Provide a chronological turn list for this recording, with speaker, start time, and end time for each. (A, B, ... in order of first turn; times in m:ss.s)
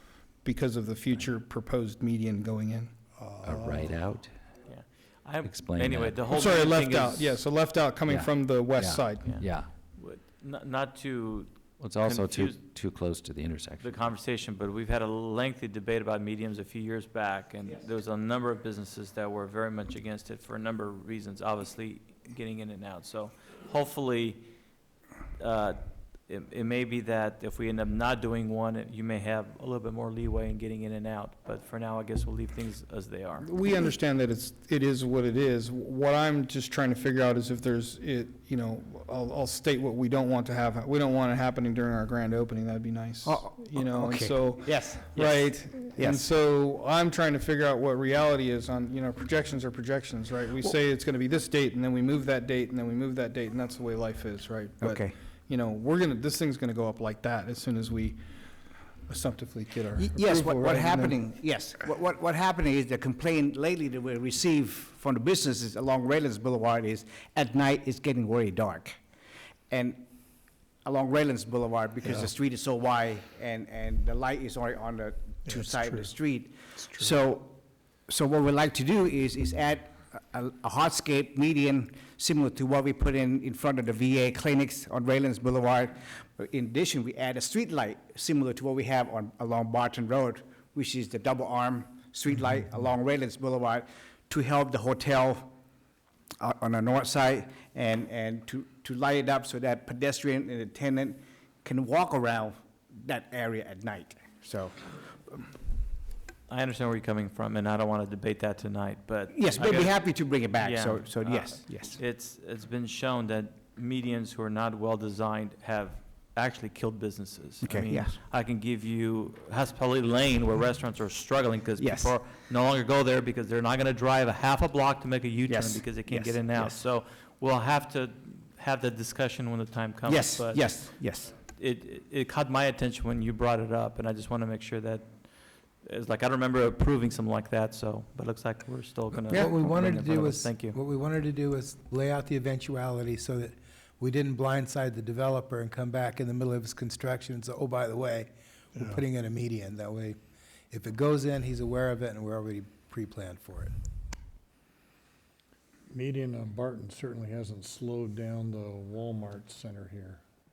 0:00.4-0:02.9 A
0:03.2-0:04.0 B
0:03.4-0:04.3 C
0:04.6-0:07.4 D
0:05.4-0:06.2 C
0:06.3-0:09.4 A
0:08.0-0:09.7 C
0:09.2-0:12.6 D
0:11.8-0:14.1 C
0:13.8-0:24.4 D
0:25.4-0:33.4 D
0:33.4-0:58.2 A
0:43.2-0:46.2 E
0:54.8-0:55.1 E
0:59.1-1:01.2 A
1:00.0-1:09.0 E
1:09.7-1:10.0 E
1:10.8-1:17.6 E
1:12.0-1:12.3 B
1:15.4-1:16.1 B
1:16.8-1:17.2 B
1:18.1-1:35.5 E
1:36.4-1:44.9 E
1:46.5-2:10.8 D
1:49.3-1:52.0 E
1:57.6-1:58.1 E
2:01.8-2:02.1 E
2:05.5-2:06.8 E
2:10.0-2:11.3 E
2:11.5-2:15.2 D
2:15.8-2:20.8 D
2:19.3-2:30.2 F
2:28.7-2:29.0 B
2:30.7-2:33.7 F
2:35.9-2:40.2 B